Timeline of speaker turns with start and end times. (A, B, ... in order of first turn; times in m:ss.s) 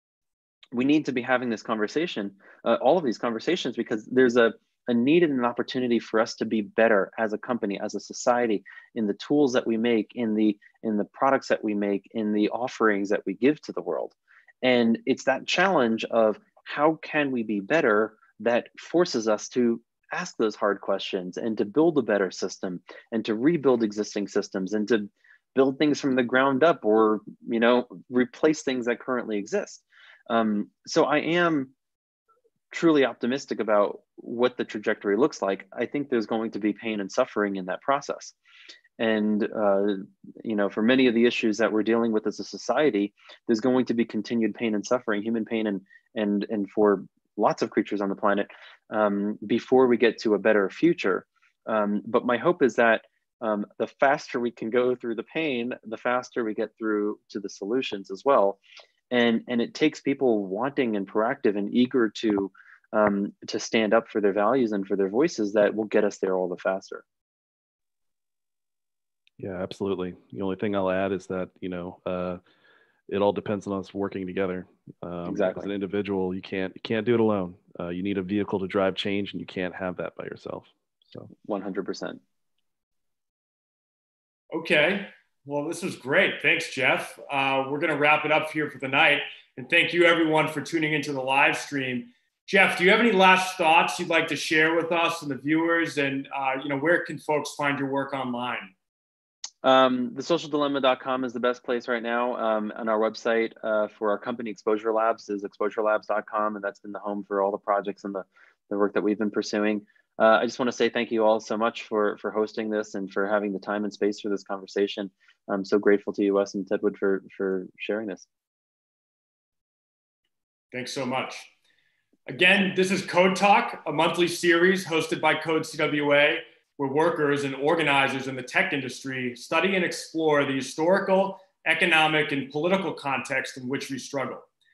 0:00.7-0:31.7 A
0:32.7-0:38.3 A
0:39.0-0:58.6 A
0:59.1-1:07.0 A
1:09.4-1:12.4 B
1:13.1-1:21.3 B
1:15.2-1:15.7 A
1:21.4-1:22.2 A
1:24.5-1:38.7 C
1:39.6-1:58.3 A
2:00.7-2:01.5 C
2:02.2-2:14.4 C